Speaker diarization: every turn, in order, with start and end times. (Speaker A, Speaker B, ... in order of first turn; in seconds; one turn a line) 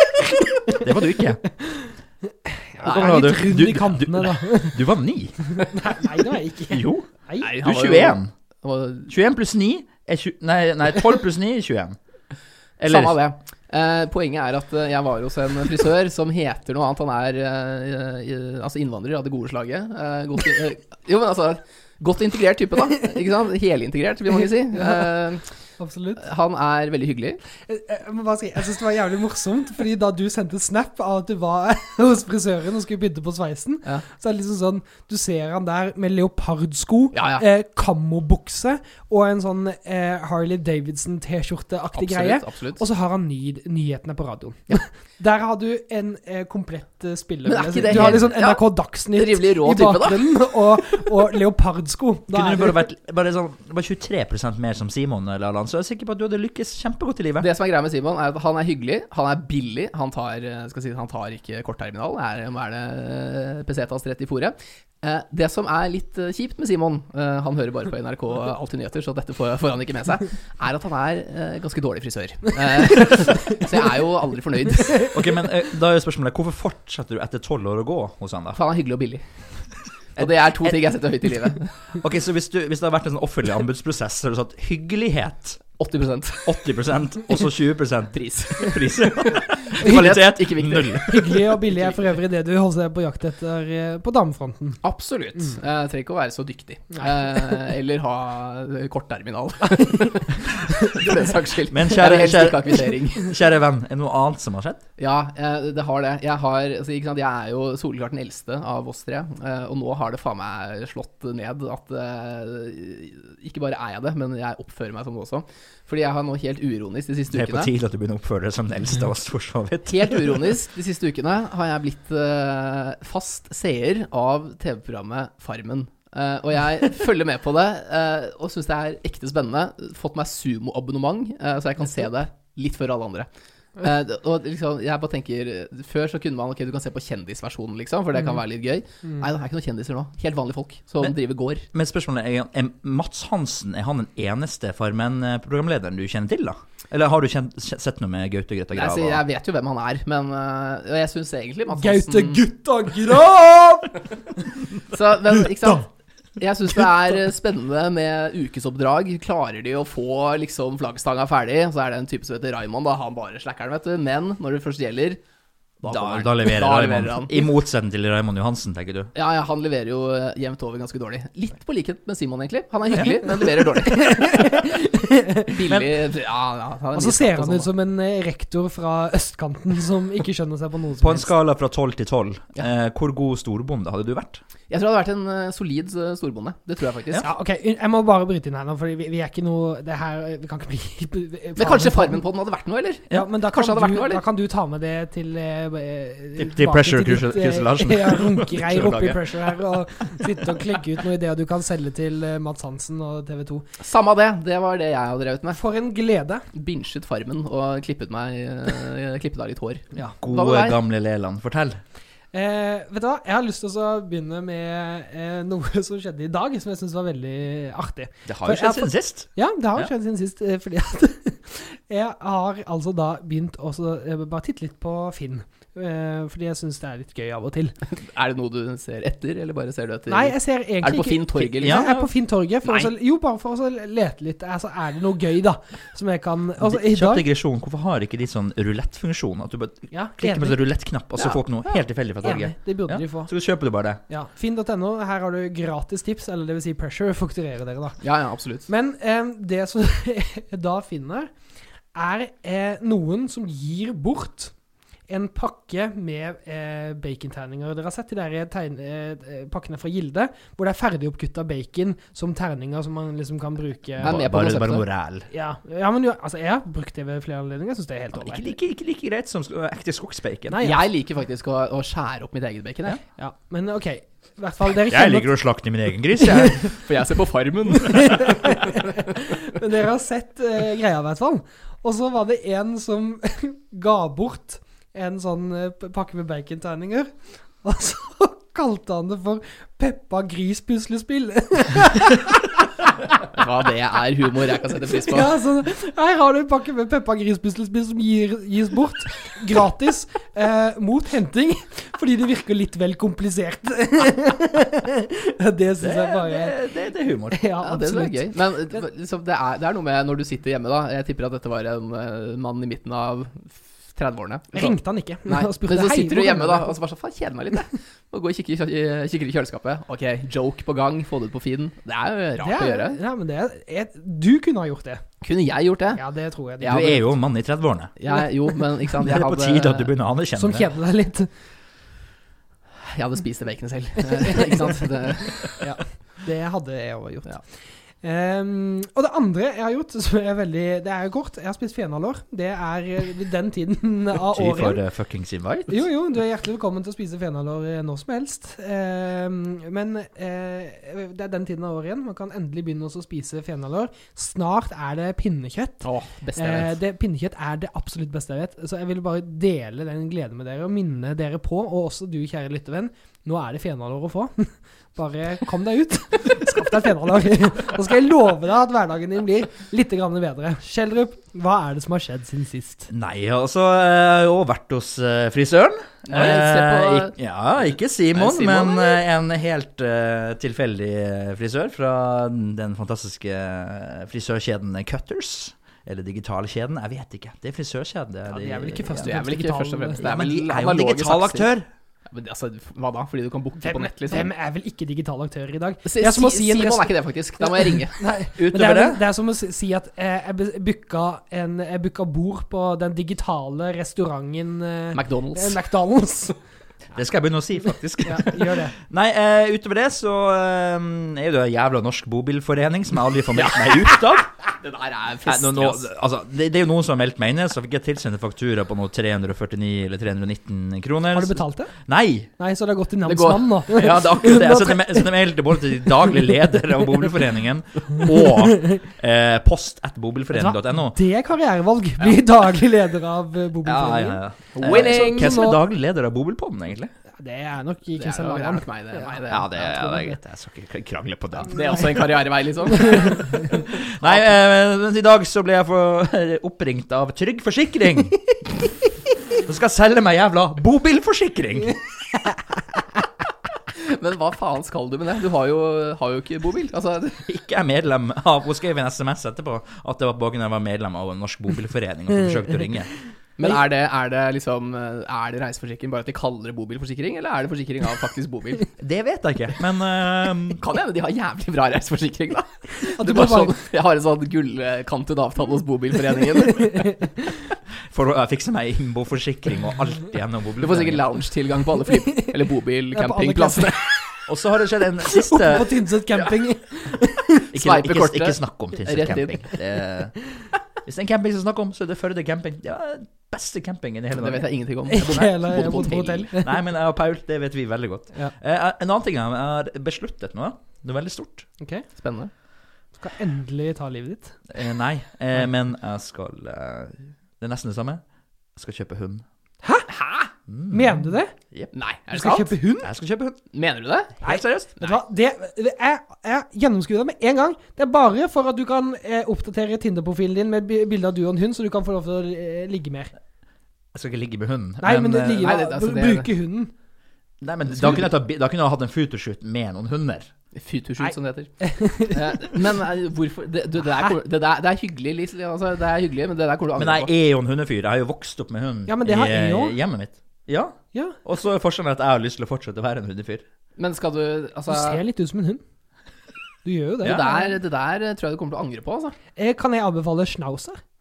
Speaker A: 0.7-1.4
Speaker B: 1.6-1.9
Speaker B: 2.5-4.8
Speaker A: 2.8-5.8
Speaker B: 5.5-7.5
Speaker A: 6.7-8.3
Speaker C: 7.4-9.1
Speaker A: 9.1-12.0
Speaker A: 12.8-13.2
Speaker C: 12.8-25.5
Speaker B: 25.8-26.2
Speaker C: 26.2-27.4
Speaker B: 27.6-52.8
Speaker C: 37.1-37.4
Speaker C: 42.0-42.8
Speaker C: 47.5-50.4
Speaker A: 52.3-57.5
Speaker C: 57.4-75.2
Speaker A: 75.1-78.6
Speaker C: 78.5-79.2
Speaker C: 80.2-81.7
Speaker A: 80.2-80.8
Speaker A: 82.0-85.6
Speaker C: 85.8-86.7
Speaker A: 86.5-91.3
Speaker C: 88.1-92.0
Speaker B: 91.1-94.8
Speaker C: 94.8-103.3
Speaker A: 101.7-104.8
Speaker C: 105.0-117.7
Speaker A: 117.3-120.5
Speaker C: 119.9-141.7
Speaker A: 141.7-149.2
Speaker C: 148.7-152.4
Speaker B: 151.8-154.0
Speaker C: 154.9-155.8
Speaker B: 155.5-155.8
Speaker C: 156.4-165.2
Speaker C: 165.8-167.5
Speaker A: 165.9-169.1
Speaker C: 169.2-174.5
Speaker B: 173.3-175.6
Speaker C: 175.5-177.7
Speaker B: 176.9-181.3
Speaker A: 181.0-184.4
Speaker C: 184.7-187.2
Speaker B: 187.2-192.2
Speaker C: 191.6-194.2
Speaker B: 193.1-203.7
Speaker A: 196.4-199.5
Speaker C: 203.8-205.6
Speaker B: 205.5-206.4
Speaker C: 206.5-210.8
Speaker A: 209.9-211.8
Speaker B: 212.3-227.8
Speaker A: 218.3-219.9
Speaker C: 227.9-231.9
Speaker B: 230.1-237.2
Speaker A: 231.6-232.1
Speaker C: 232.7-232.9
Speaker A: 236.6-244.0
Speaker B: 239.9-240.6
Speaker B: 241.2-243.3
Speaker B: 244.1-248.0
Speaker C: 248.0-248.7
Speaker B: 248.7-251.3
Speaker B: 251.9-254.5
Speaker B: 255.1-264.2
Speaker C: 264.0-264.9
Speaker A: 264.0-265.3
Speaker B: 265.3-268.5
Speaker A: 268.1-270.6
Speaker B: 270.5-270.9
Speaker C: 270.6-273.0
Speaker B: 273.2-275.3
Speaker A: 274.9-276.7
Speaker B: 276.2-276.7
Speaker C: 276.8-279.0
Speaker B: 277.9-292.5
Speaker C: 293.3-295.3
Speaker B: 295.0-306.6
Speaker A: 305.8-307.4
Speaker B: 307.3-308.2
Speaker C: 307.6-314.8
Speaker B: 314.5-316.7
Speaker C: 315.3-323.0
Speaker B: 322.4-325.0
Speaker C: 325.2-326.0
Speaker B: 325.9-327.1
Speaker C: 326.6-327.0
Speaker A: 326.6-327.9
Speaker C: 328.0-329.9
Speaker A: 329.0-330.7
Speaker B: 330.4-331.3
Speaker C: 332.8-335.6
Speaker B: 335.6-337.3
Speaker B: 338.0-344.8
Speaker A: 344.3-345.8
Speaker B: 345.7-355.9
Speaker C: 355.8-356.8
Speaker B: 356.4-372.9
Speaker A: 372.9-389.1
Speaker C: 376.1-377.1
Speaker C: 378.1-379.0
Speaker B: 388.3-390.0
Speaker C: 389.0-391.5
Speaker A: 390.0-391.7
Speaker C: 392.1-394.3
Speaker B: 393.6-406.4
Speaker C: 395.9-398.8
Speaker A: 398.4-399.0
Speaker C: 404.9-405.6
Speaker A: 406.9-414.3
Speaker B: 408.0-408.7
Speaker C: 413.3-415.9
Speaker A: 415.2-422.3
Speaker B: 421.1-421.7
Speaker B: 422.4-425.1
Speaker C: 423.1-424.0
Speaker A: 423.7-431.0
Speaker B: 430.3-435.6
Speaker A: 433.6-436.9
Speaker C: 434.6-435.5
Speaker B: 437.1-440.2
Speaker C: 438.0-439.5
Speaker A: 439.3-441.8
Speaker C: 441.4-444.3
Speaker A: 443.4-448.5
Speaker A: 449.4-452.1
Speaker C: 453.8-457.2
Speaker A: 457.2-462.9
Speaker C: 463.4-468.7
Speaker A: 468.8-470.6
Speaker C: 470.6-476.9
Speaker B: 472.8-473.6
Speaker B: 476.6-477.1
Speaker A: 477.9-481.0
Speaker C: 480.6-483.9
Speaker B: 482.9-483.8
Speaker A: 484.3-485.9
Speaker B: 485.2-487.4
Speaker C: 487.5-489.6
Speaker A: 487.5-490.2
Speaker A: 490.9-494.5
Speaker C: 494.1-496.3
Speaker B: 494.9-496.6
Speaker A: 496.4-501.5
Speaker B: 501.6-501.9
Speaker C: 502.0-502.3
Speaker B: 503.0-504.4
Speaker A: 504.5-508.0
Speaker A: 508.6-509.2
Speaker B: 509.6-509.9
Speaker C: 509.9-510.3
Speaker A: 510.5-511.0
Speaker B: 510.7-511.4
Speaker C: 511.7-512.6
Speaker B: 512.1-512.9
Speaker A: 512.8-513.4
Speaker C: 513.5-514.2
Speaker A: 514.2-514.8
Speaker B: 514.2-523.1
Speaker A: 523.9-525.5
Speaker B: 524.8-526.7
Speaker C: 525.4-526.3
Speaker A: 527.4-530.3
Speaker C: 527.7-528.1
Speaker C: 530.5-537.1
Speaker B: 531.6-532.6
Speaker A: 536.8-543.5
Speaker B: 538.9-539.8
Speaker C: 543.8-545.0
Speaker B: 544.7-545.6
Speaker B: 546.6-547.6
Speaker C: 547.0-549.2
Speaker B: 549.4-550.8